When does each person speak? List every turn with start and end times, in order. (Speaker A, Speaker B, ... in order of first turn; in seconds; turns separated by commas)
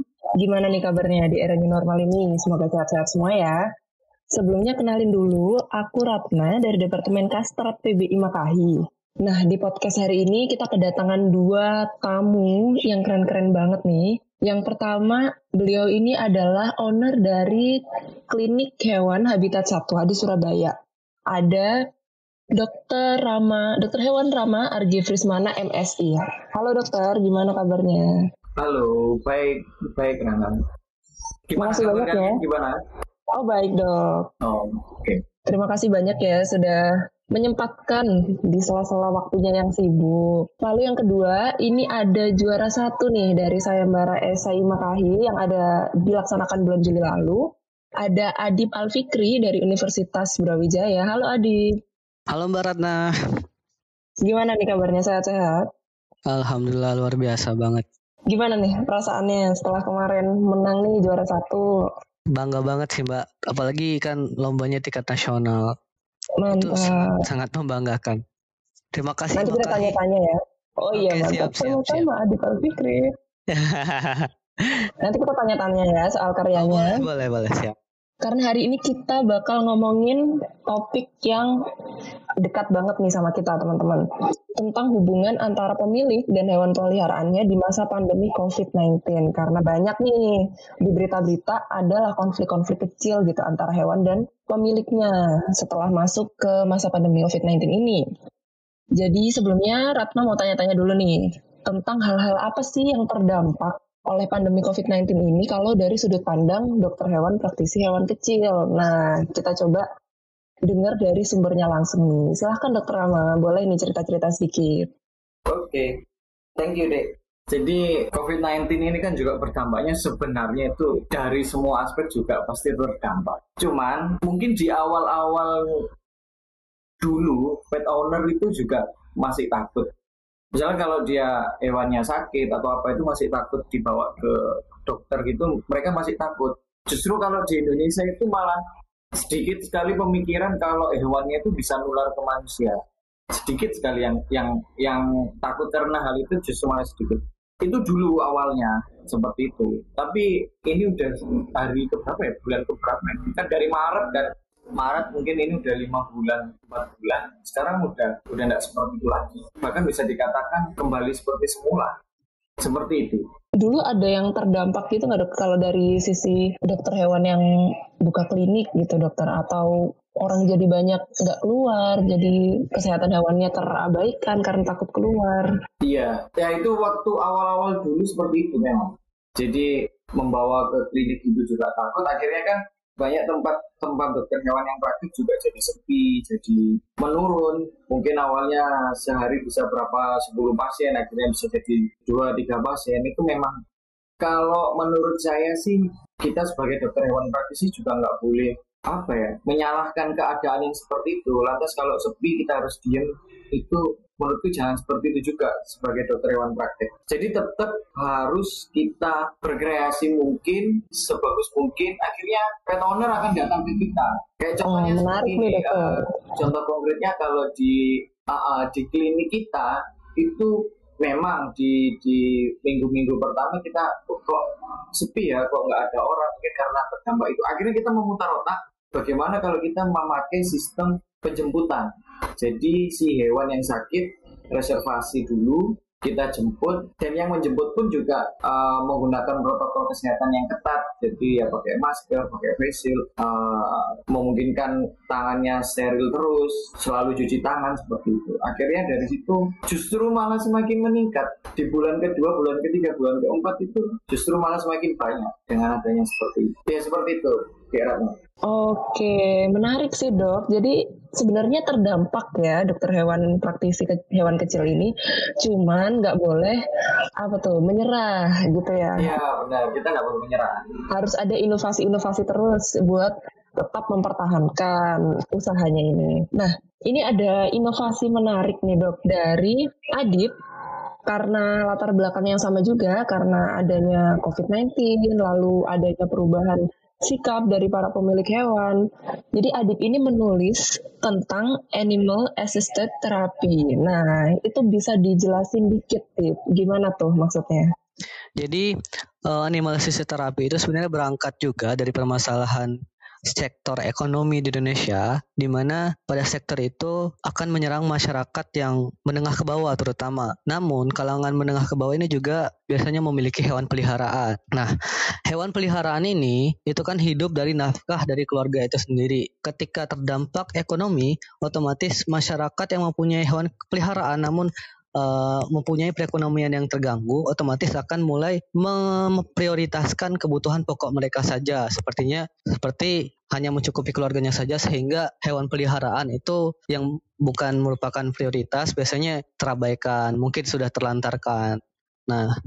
Speaker A: 0.4-3.6, Speaker A: 4.3-17.7, Speaker A: 18.3-20.7, Speaker A: 21.3-21.7, Speaker A: 22.6-28.1, Speaker B: 28.6-30.6, Speaker B: 31.5-32.8, Speaker A: 31.6-32.4, Speaker A: 33.4-34.2, Speaker B: 34.4-35.2, Speaker A: 35.5-36.8, Speaker A: 37.3-47.4, Speaker A: 48.0-51.6, Speaker C: 52.3-53.0, Speaker A: 54.2-55.6, Speaker C: 56.3-57.8, Speaker A: 58.3-61.7, Speaker C: 62.4-65.7, Speaker A: 66.4-67.2, Speaker C: 66.5-68.2, Speaker C: 68.9-70.0, Speaker A: 69.3-73.0, Speaker C: 70.9-72.1, Speaker C: 73.5-74.3, Speaker A: 75.0-77.0, Speaker C: 76.5-77.7, Speaker A: 78.2-81.5, Speaker A: 82.4-84.0, Speaker A: 84.6-98.0, Speaker A: 99.0-109.8, Speaker A: 110.7-114.9, Speaker B: 115.5-115.9, Speaker B: 116.6-125.6, Speaker B: 127.0-129.9, Speaker B: 130.6-138.6, Speaker B: 139.2-142.8, Speaker B: 143.3-161.9, Speaker B: 162.6-163.2, Speaker A: 163.6-167.4, Speaker A: 168.1-175.5, Speaker B: 175.8-193.6, Speaker B: 194.2-224.4, Speaker A: 214.7-216.0, Speaker B: 225.0-258.1, Speaker A: 258.5-264.9, Speaker A: 265.4-266.6, Speaker A: 267.2-269.1, Speaker B: 269.0-270.7, Speaker A: 270.9-280.3, Speaker A: 281.1-288.8, Speaker A: 289.4-297.7, Speaker C: 298.4-298.7, Speaker C: 299.3-302.7, Speaker C: 303.3-314.7, Speaker C: 315.3-341.6